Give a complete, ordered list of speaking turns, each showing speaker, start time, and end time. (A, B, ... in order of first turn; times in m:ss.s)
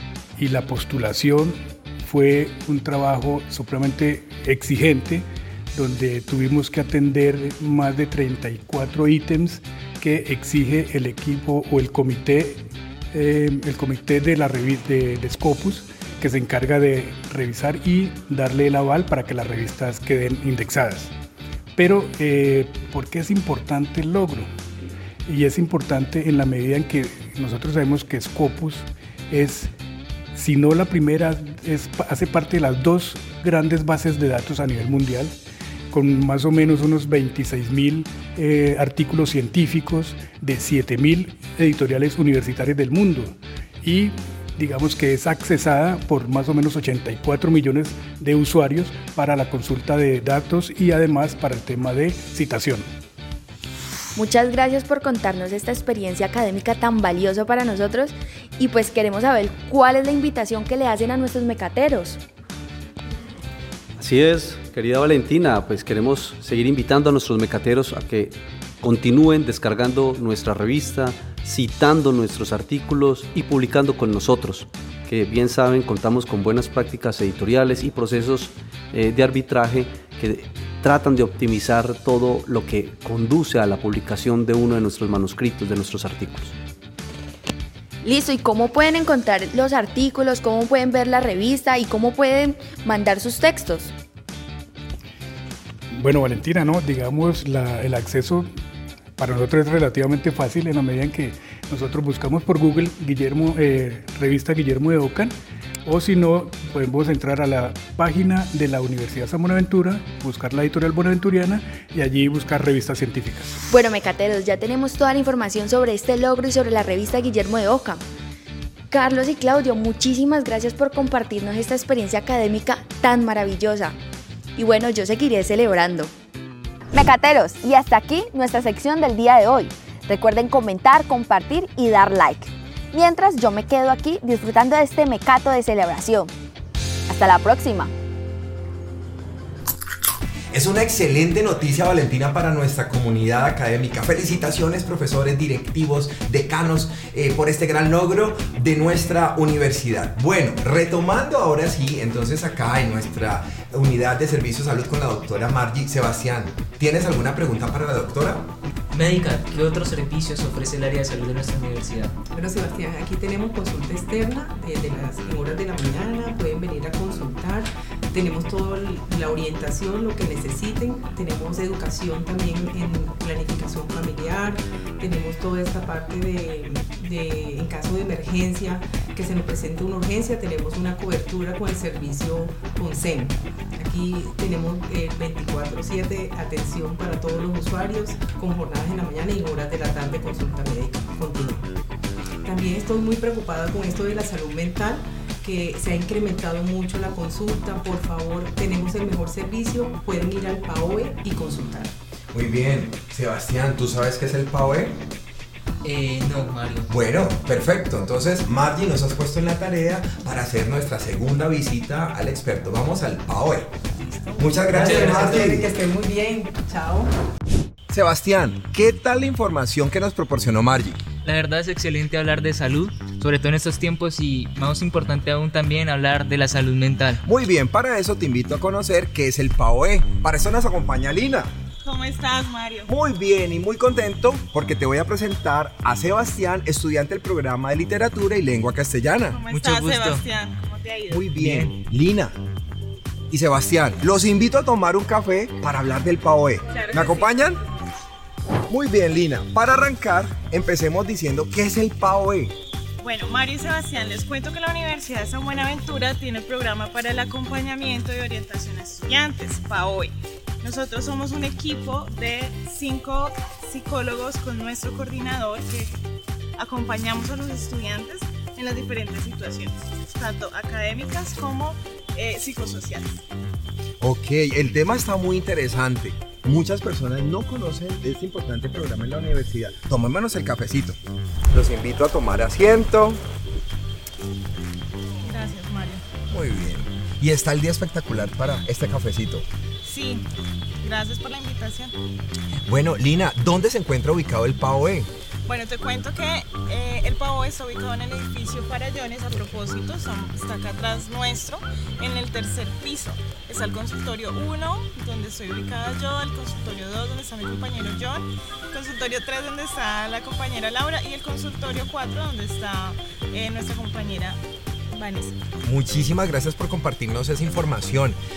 0:00.4-0:21.1 A
0:21.8-0:24.5 A
0:25.2-0:29.7 A
0:30.3-0:35.3 A
0:35.9-0:52.9 A
0:54.2-1:02.2 B
1:04.0-1:26.5 C
1:28.0-1:33.9 B
1:35.9-1:38.5 A
1:39.2-1:45.3 A
1:45.8-1:53.5 A
1:53.7-1:58.0 B
1:58.9-2:04.0 B
2:04.6-2:06.1 B
2:06.9-2:16.3 B
2:17.1-2:17.9 B
2:20.5-2:38.5 D
2:38.9-2:42.1 E
2:42.3-3:11.6 F
3:12.4-3:21.9 F
3:22.3-3:25.0 D
3:25.8-3:26.9 E
3:26.9-3:33.7 D
3:34.0-3:37.1 F
3:34.4-3:35.7 D
3:34.7-3:35.5 E
3:37.9-3:41.0 D
3:41.2-3:47.2 E
3:47.2-3:51.5 D
3:51.8-3:52.9 G
3:52.9-3:59.4 D
3:59.3-4:01.3 G
3:59.5-4:00.2 E
4:01.1-4:02.3 D
4:01.4-4:01.7 E
4:03.3-4:07.6 D
4:06.7-4:07.4 G
4:08.7-4:12.5 D
4:13.0-4:26.0 G
4:26.6-4:33.2 G
4:34.0-4:41.0 D
4:41.5-4:43.2 D
4:45.2-4:46.0 G
4:46.3-4:49.4 D
4:49.8-4:50.2 G
4:50.8-4:51.9 G
4:52.7-4:55.1 D
4:55.4-5:15.4 G
5:15.6-5:18.2 D